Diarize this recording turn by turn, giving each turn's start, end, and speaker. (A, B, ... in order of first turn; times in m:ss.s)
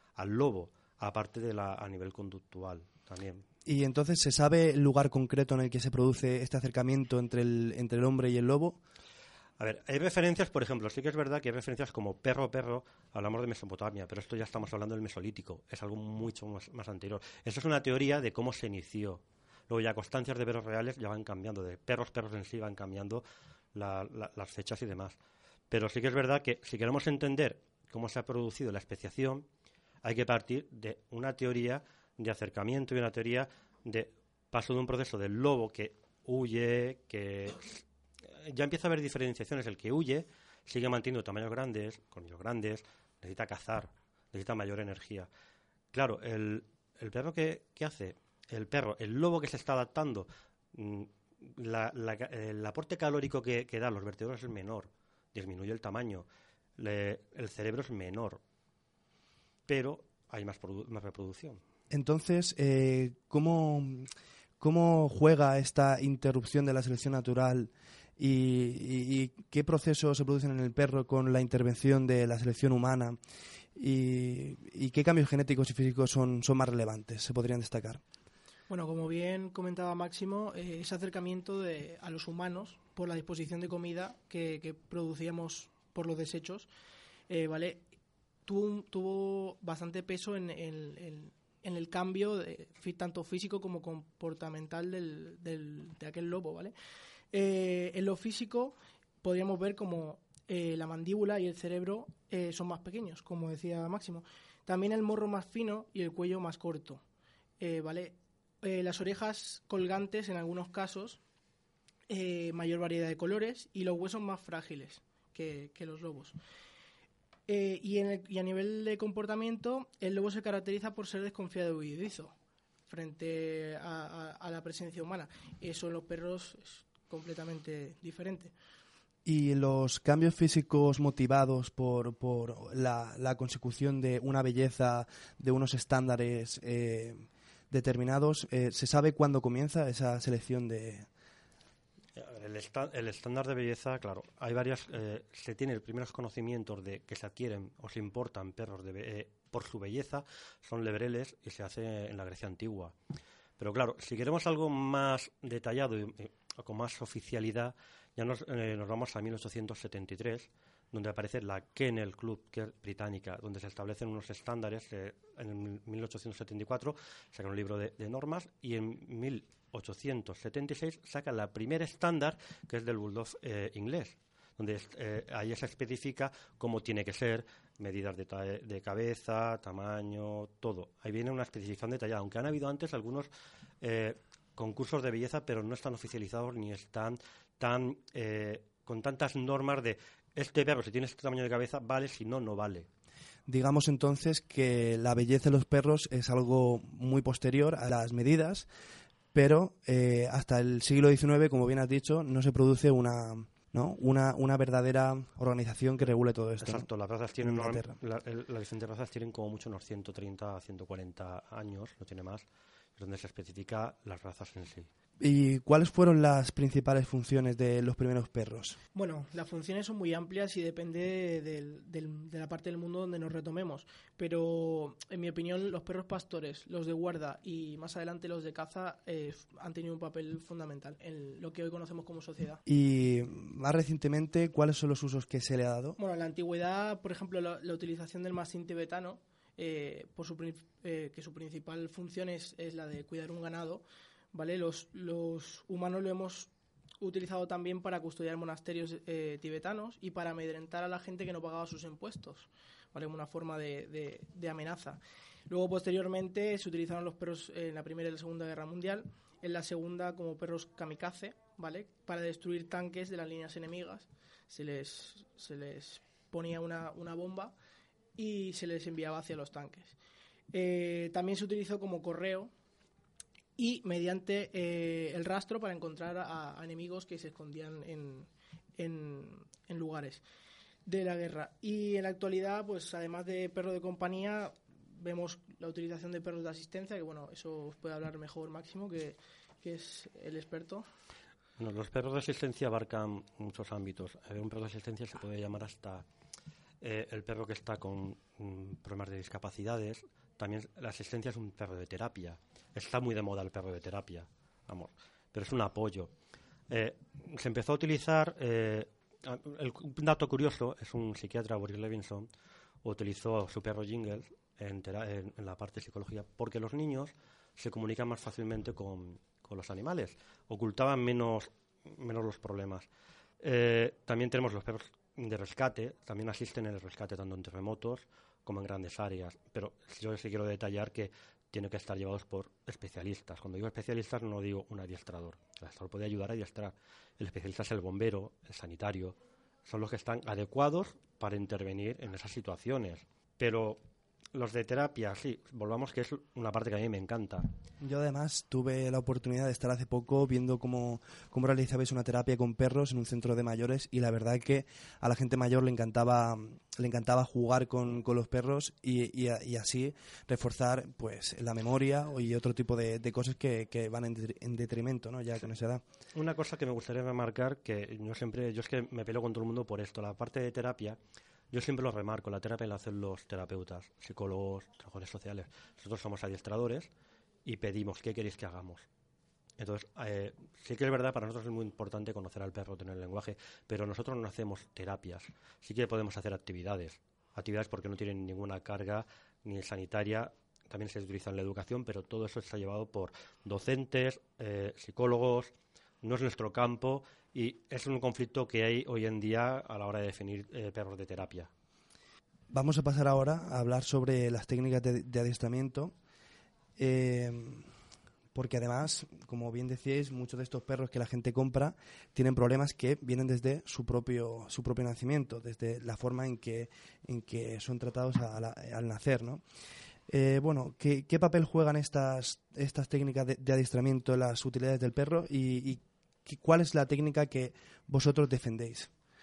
0:00.2-0:03.4 A
0:03.6-0:08.8 B
0:09.6-0:25.2 A
0:25.7-0:29.5 A
0:30.0-0:37.8 A
0:38.4-0:45.3 A
0:45.9-0:58.4 A
0:59.7-1:01.6 A
1:01.9-1:04.1 B
1:04.6-1:13.2 B
1:13.8-1:18.0 B
1:18.7-1:26.7 C
1:27.3-1:27.8 C
1:28.4-1:36.7 C
1:37.3-1:47.0 C
1:47.6-1:51.2 C
1:52.1-1:56.4 C
1:57.5-2:02.3 C
2:02.9-2:08.5 C
2:09.2-2:21.1 B
2:22.1-2:33.0 A
2:33.6-3:03.3 A
3:03.8-3:12.9 A
3:13.5-3:18.7 B
3:19.3-3:26.9 B
3:26.6-3:32.4 A
3:27.4-3:28.0 B
3:33.0-3:34.9 A
3:35.2-3:38.8 B
3:38.9-3:52.6 C
3:52.6-3:56.0 B
3:56.0-4:27.5 C
4:28.2-4:30.0 C
4:30.5-4:32.5 C
4:33.6-4:40.2 C
4:40.8-4:50.8 C
4:51.6-4:56.0 A
4:56.8-5:06.1 A
5:06.7-5:12.3 A
5:12.8-5:22.9 A
5:23.4-5:43.8 A
5:44.3-5:47.4 A
5:47.8-6:05.8 B
6:06.1-6:11.0 A
6:11.5-6:16.9 A
6:17.4-6:18.9 A
6:19.6-6:41.5 A
6:42.5-6:45.9 B
6:46.8-6:47.7 B
6:48.3-6:59.4 B
7:00.1-7:08.9 B